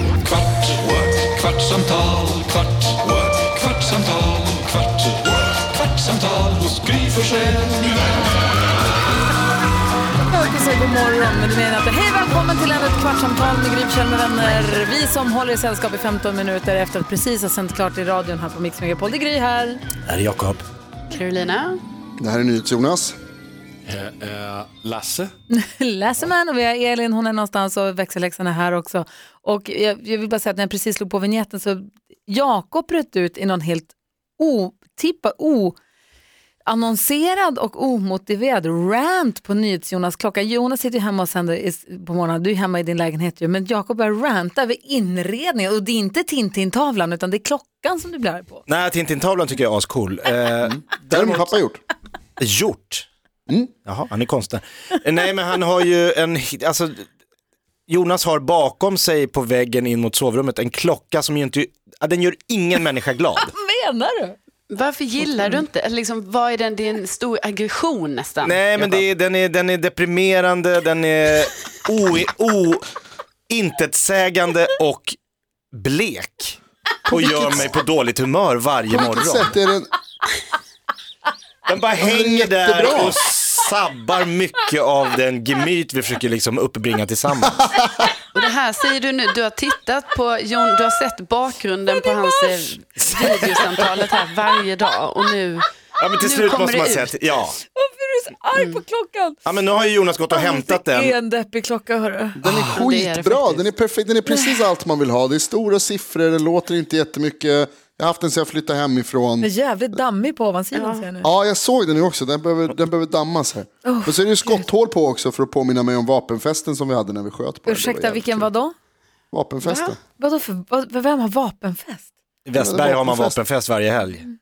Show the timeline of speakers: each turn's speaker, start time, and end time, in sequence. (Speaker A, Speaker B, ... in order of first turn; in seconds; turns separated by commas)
Speaker A: 0.2-8.0, Speaker B: 10.3-19.8, Speaker C: 20.0-20.6, Speaker D: 21.1-21.8, Speaker E: 22.2-23.1, Speaker A: 23.8-25.3, Speaker B: 25.5-35.8, Speaker B: 36.6-48.6, Speaker C: 48.7-51.5, Speaker E: 50.6-51.8, Speaker C: 52.4-53.1, Speaker C: 53.9-57.0, Speaker C: 57.9-63.5, Speaker B: 63.4-64.4, Speaker D: 64.7-68.9, Speaker C: 68.4-72.8, Speaker C: 73.5-75.2, Speaker C: 75.7-79.5, Speaker E: 77.1-77.7, Speaker E: 78.9-79.9, Speaker C: 81.7-87.7, Speaker E: 82.0-83.2, Speaker D: 88.3-95.7, Speaker C: 93.0-93.8, Speaker C: 96.0-97.6, Speaker D: 96.2-97.2, Speaker B: 97.7-99.4, Speaker D: 98.5-98.8, Speaker C: 99.5-101.1, Speaker B: 100.3-102.4, Speaker E: 102.4-109.5, Speaker D: 102.5-103.6, Speaker B: 104.2-104.7, Speaker B: 109.4-111.3, Speaker D: 110.7-111.0, Speaker E: 111.2-118.5, Speaker B: 113.8-114.7, Speaker B: 117.7-118.7, Speaker E: 119.3-120.0, Speaker D: 119.6-119.9, Speaker B: 120.2-122.1, Speaker C: 122.5-124.2, Speaker E: 122.6-123.3